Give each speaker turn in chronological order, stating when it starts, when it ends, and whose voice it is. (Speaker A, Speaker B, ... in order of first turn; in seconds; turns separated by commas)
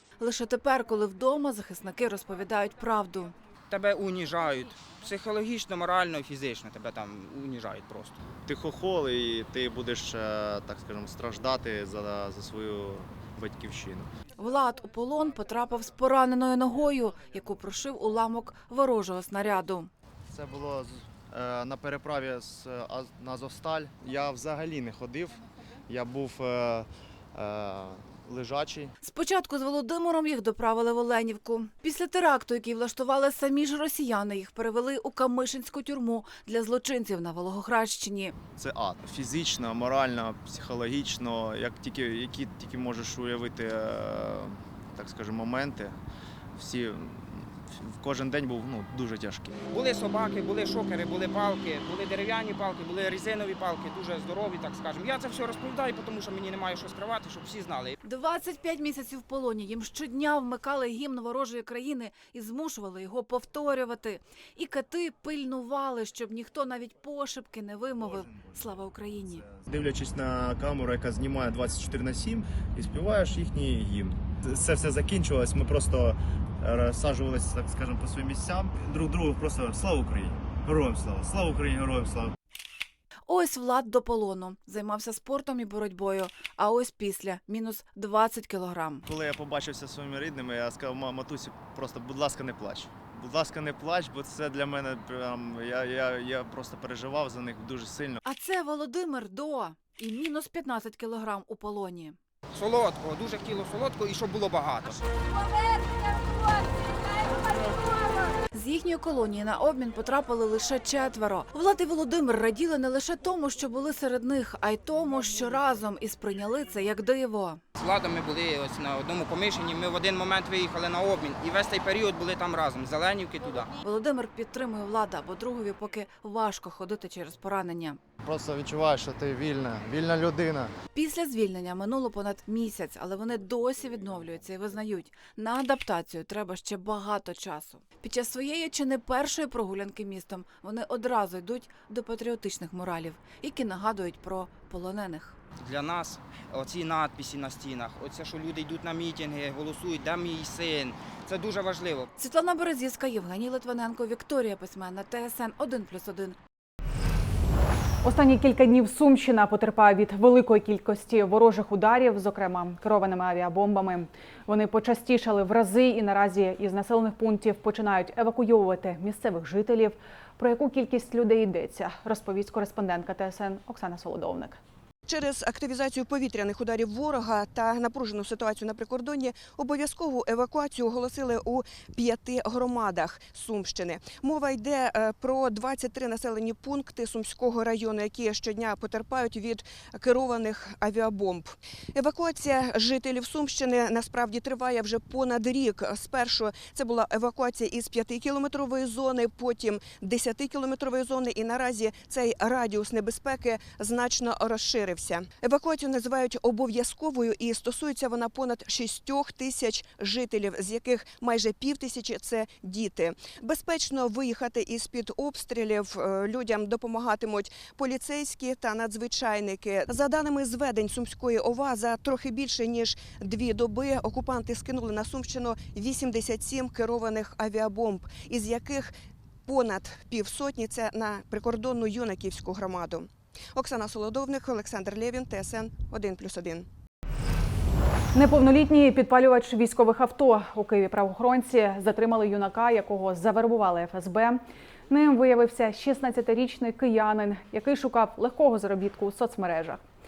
Speaker A: 0.2-3.3, Speaker B: 3.7-8.2, Speaker C: 8.5-14.1, Speaker A: 14.4-19.9, Speaker C: 20.3-25.4, Speaker C: 25.9-28.9, Speaker A: 29.0-38.4, Speaker C: 38.6-45.9, Speaker C: 46.6-49.5, Speaker B: 49.7-58.0, Speaker A: 58.0-69.5, Speaker C: 68.1-68.6, Speaker C: 69.4-82.3, Speaker A: 83.2-89.1, Speaker C: 89.1-98.2, Speaker A: 98.2-102.2, Speaker B: 102.5-105.0, Speaker A: 107.3-107.9, Speaker A: 108.5-117.6, Speaker B: 117.8-123.7, Speaker A: 123.8-128.0, Speaker C: 128.2-130.7, Speaker A: 130.9-145.3, Speaker B: 145.6-152.1, Speaker A: 152.2-156.4, Speaker D: 158.0-174.6, Speaker E: 175.1-228.9, Speaker E: 229.5-236.7, Speaker D: 238.1-249.8